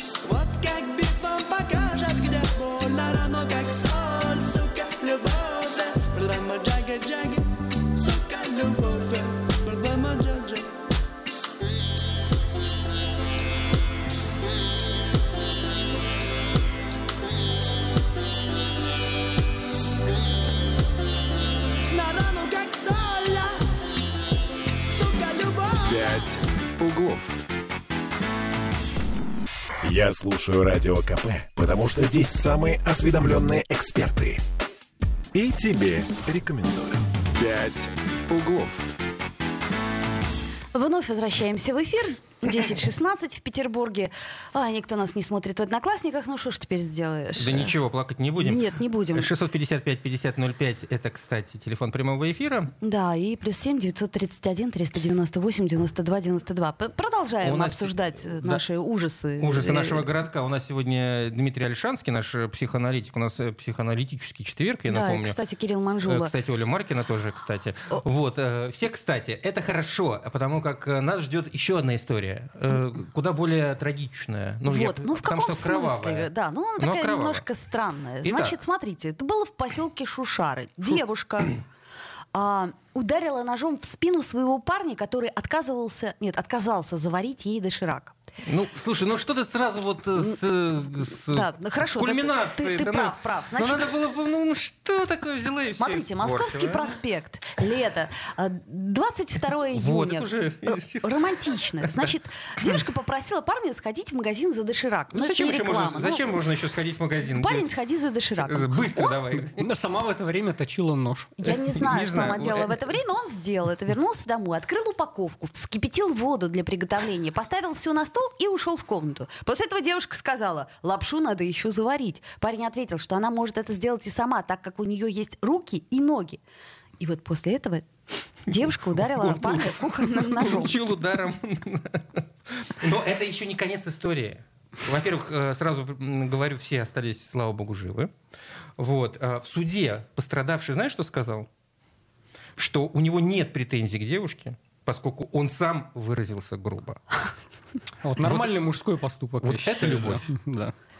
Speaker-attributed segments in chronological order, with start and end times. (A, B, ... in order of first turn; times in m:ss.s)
0:00.2-0:10.8 A
0:21.9-0:23.8 A
0:24.8-0:26.2 A
0:25.8-0:27.4 B
0:29.8-0:34.4 B
0:35.3-0:38.9 B
0:40.7-0:47.8 C
0:47.4-0:52.7 D
0:48.4-0:49.3 C
0:52.8-1:00.1 C
0:57.4-0:58.6 D
0:59.4-1:05.4 D
1:04.9-1:06.3 C
1:06.0-1:17.4 D
1:14.6-1:21.6 C
1:18.2-1:18.6 D
1:22.3-1:28.1 C
1:28.4-1:37.0 D
1:31.1-1:33.9 C
1:35.8-1:46.4 C
1:39.7-1:42.1 D
1:45.1-1:47.7 D
1:47.3-1:49.2 C
1:48.4-1:49.7 D
1:49.5-1:51.4 E
1:51.4-2:06.4 C
1:51.6-1:52.8 D
2:07.0-2:07.9 C
2:08.4-2:10.8 C
2:09.0-2:18.1 D
2:18.8-2:21.5 D
2:22.6-2:27.0 D
2:28.0-2:30.7 E
2:28.2-2:28.5 D
2:29.4-2:30.3 D